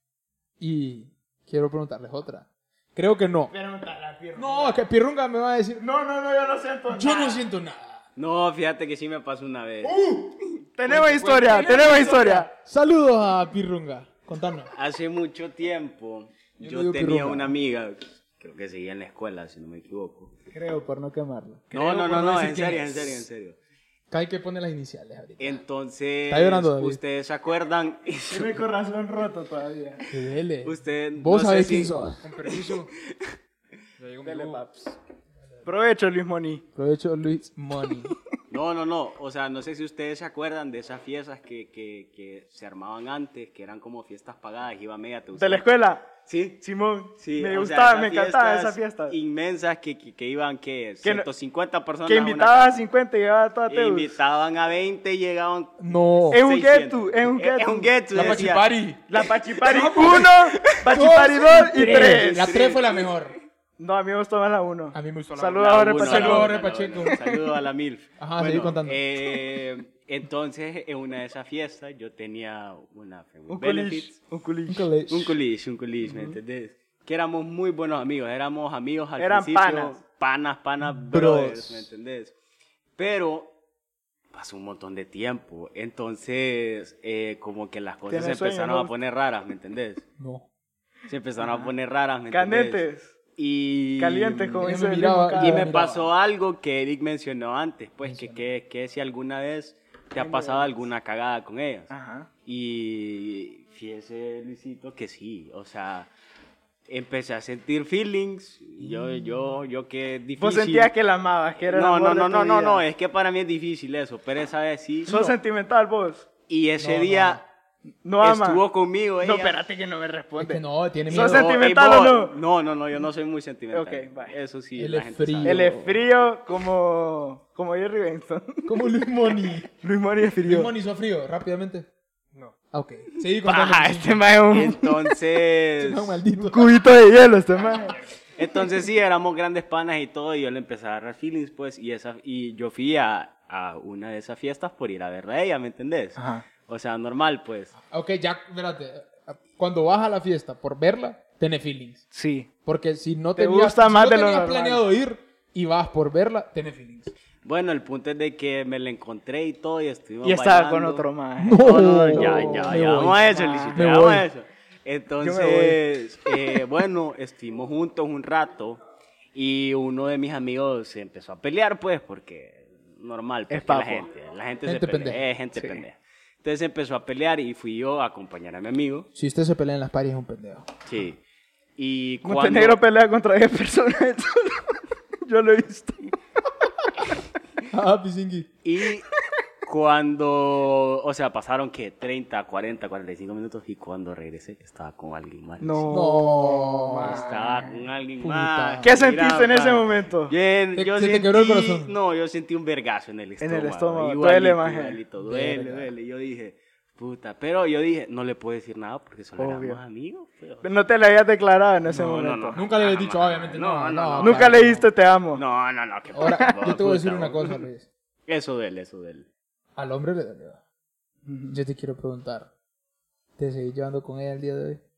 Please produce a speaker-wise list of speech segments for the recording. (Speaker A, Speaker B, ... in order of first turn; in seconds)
Speaker A: 0.6-3.5, 4.3-5.8, 6.9-8.0, 10.9-14.7, 16.6-17.5, 21.7-23.2, 24.1-25.6, 26.3-27.0, 30.1-32.2, 36.8-38.1, 55.8-56.4, 58.1-59.0, 59.6-63.4, 64.9-67.2, 68.2-69.0, 74.7-75.3, 81.0-81.9, 90.2-90.5, 94.6-96.1, 98.0-98.5, 115.1-115.3, 116.8-117.4, 120.4-121.5, 124.8-125.7, 128.7-129.7, 130.4-131.9, 132.7-134.2, 135.8-136.8, 147.8-152.0, 152.6-157.1, 161.4-164.3, 174.6-175.2, 179.1-180.7, 187.7-188.5, 195.9-197.3, 198.2-198.9, 200.7-201.9, 205.2-205.9, 212.5-214.9, 216.1-217.9, 219.8-220.6, 221.5-222.5, 223.4-224.8
Speaker B: 3.5-4.8, 5.8-7.4, 9.8-12.5, 20.5-21.7, 28.3-30.0, 34.2-35.0, 35.6-36.6, 45.4-46.0, 46.6-49.1, 51.0-51.3, 52.0-54.1, 56.3-58.4, 59.1-62.8, 63.8-66.6, 67.1-67.3, 73.5-74.9, 76.0-76.4, 79.2-80.0, 88.1-88.9, 91.4-91.7, 92.3-93.1, 94.0-95.7, 100.2-100.7, 101.9-102.3, 110.4-112.8, 115.0-116.3, 118.0-118.6, 119.2-122.3, 123.7-124.3, 125.4-128.7, 129.8-130.7, 133.4-135.1, 136.4-137.9, 146.2-146.4, 152.1-152.5, 153.4-154.8, 160.2-163.8, 165.2-165.8, 173.5-174.1, 175.6-175.8, 182.2-184.7, 185.2-186.0, 195.6-197.7, 198.8-200.3, 203.4-205.0, 209.4-209.8, 210.6-212.6, 214.2-215.4, 221.2-221.6
Speaker C: 8.2-10.1, 14.7-20.3, 21.7-23.6, 25.4-28.6, 30.6-32.0, 38.5-45.7, 46.2-46.6, 47.2-52.8, 53.7-58.7, 61.8-62.8, 65.6-74.1, 75.1-82.3, 83.0-83.5, 84.3-90.0, 91.1-92.8, 93.3-94.7, 95.3-101.9, 102.5-106.1, 106.9-110.9, 111.7-115.1, 116.5-117.4, 118.2-119.6, 121.1-126.0, 134.4-136.2, 138.4-147.7, 157.4-161.1, 161.6-168.8, 169.3-179.1, 180.8-181.2, 181.8-182.8, 188.6-189.1, 189.7-195.9, 197.0-210.7, 211.8-214.6, 215.3-217.6, 218.3-219.3
Speaker D: 10.9-12.2, 32.2-32.9, 34.0-34.6